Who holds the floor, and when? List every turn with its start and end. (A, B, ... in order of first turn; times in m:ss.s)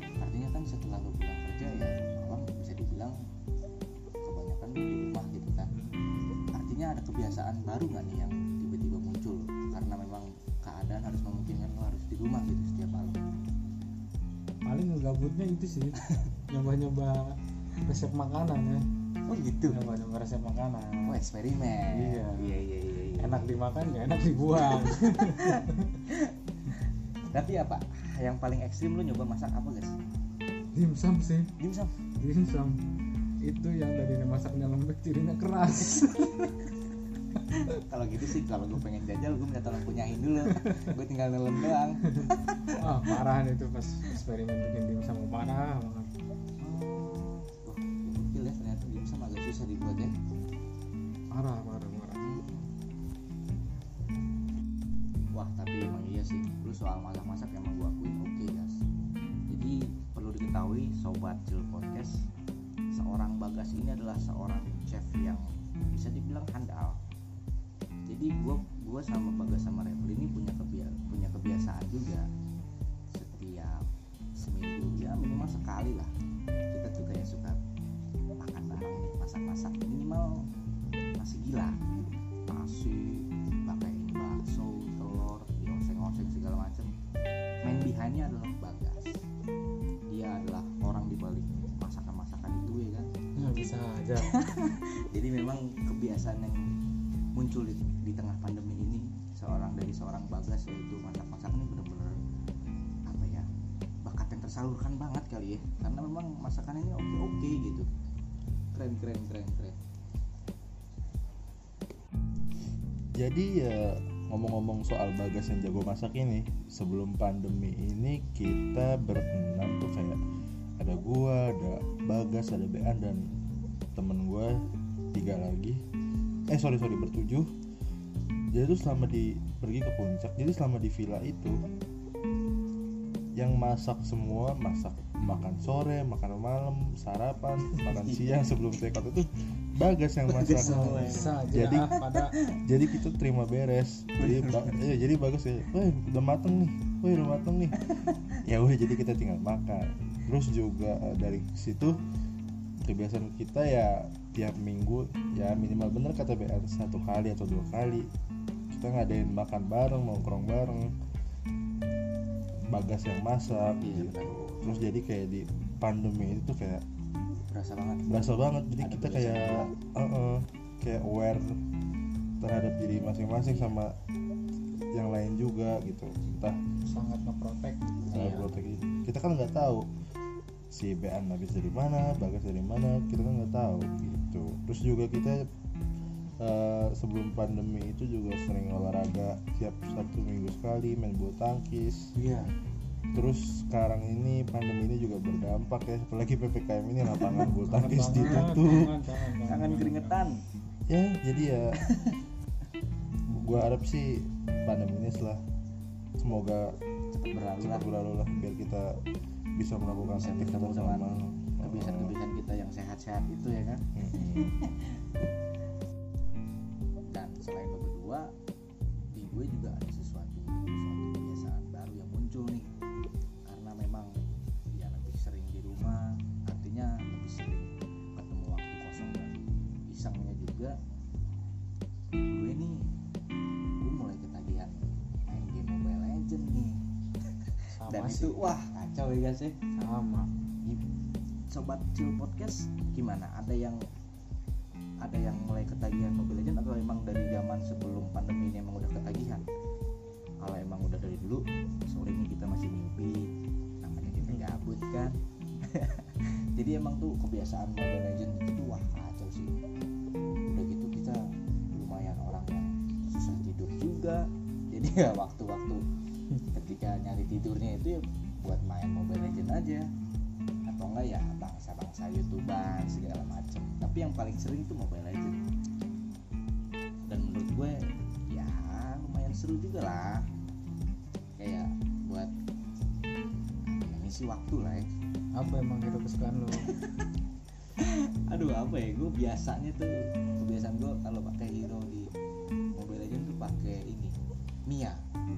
0:00.2-0:03.2 A
0:04.2-0:05.7 A
0:05.7-0:06.3 B
0:06.5-0:13.2 A
0:14.6-0:18.9 B
0:19.2-0:19.8 A
0:19.7-0:21.1 B
0:21.0-0:23.6 A
0:21.9-0:22.6 B
0:23.2-0:26.0 B
0:24.1-0:30.0 A
0:30.7-0:31.5 B
0:31.6-0:31.9 A
0:32.2-0:32.8 B
0:33.4-0:36.3 B
0:35.8-0:36.7 A
0:37.5-0:43.2 A
0:42.1-0:46.1 B
0:46.6-0:50.1 A
0:51.3-0:52.4 B
0:52.2-0:52.7 A
0:55.3-0:58.8 A
0:59.5-1:02.2 A
1:02.9-1:07.0 A
1:08.1-1:12.3 A
1:13.1-1:13.9 A
1:14.4-1:16.1 A
1:16.7-1:17.6 A
1:18.4-1:20.4 A
1:21.2-1:21.8 A
1:22.5-1:26.9 A
1:27.6-1:29.2 A
1:30.1-1:33.1 A
1:33.4-1:34.3 B
1:34.2-1:36.7 A
1:37.4-1:42.2 A
1:43.1-1:43.5 A
1:44.0-1:47.9 A
1:48.7-1:49.8 A
1:53.1-2:00.2 C
2:00.8-2:03.3 C
2:04.0-2:04.6 C
2:05.1-2:05.8 C
2:06.5-2:07.5 C
2:08.5-2:11.6 C
2:13.4-2:22.0 C
2:17.7-2:18.6 A
2:20.2-2:21.4 A
2:20.6-2:22.4 B
2:22.1-2:22.6 A
2:22.6-2:27.8 C
2:24.2-2:24.8 A
2:27.8-2:28.2 A
2:28.4-2:32.0 C
2:32.8-2:38.1 C
2:38.7-2:40.9 C
2:42.7-2:46.8 C
2:43.4-2:44.7 A
2:47.5-2:49.7 A
2:48.1-2:51.6 C
2:52.4-2:54.0 C
2:53.3-2:53.8 A
2:54.9-2:56.6 C
2:56.8-2:58.5 B
2:58.1-2:58.6 A
2:58.1-2:59.9 C
3:00.7-3:05.5 C
3:06.4-3:12.1 C
3:12.1-3:12.5 A
3:13.1-3:19.0 C
3:17.3-3:20.2 B
3:18.1-3:18.8 A
3:19.4-3:20.4 A
3:20.9-3:21.7 C
3:21.9-3:22.2 A
3:23.3-3:25.4 C
3:26.2-3:26.8 C
3:27.1-3:27.9 A
3:27.6-3:29.0 C
3:29.6-3:32.1 C
3:30.1-3:35.0 A
3:33.9-3:34.6 C
3:37.1-3:38.3 A
3:39.1-3:42.7 A
3:43.5-3:44.1 A
3:44.7-3:50.8 A
3:52.2-3:52.9 A
3:53.8-3:54.7 A
3:55.2-3:59.6 A
3:57.8-3:58.4 B
3:59.8-4:00.3 B
4:01.5-4:03.8 A
4:05.0-4:09.4 A
4:10.4-4:13.3 A
4:13.8-4:19.6 A
4:20.5-4:25.8 A
4:26.4-4:29.9 A
4:30.7-4:35.4 A
4:37.1-4:40.3 A
4:41.4-4:42.3 A
4:43.7-4:44.9 A
4:45.3-4:46.7 B
4:46.6-4:47.0 A
4:47.8-4:52.1 A
4:52.8-4:54.2 A
4:54.7-4:55.0 A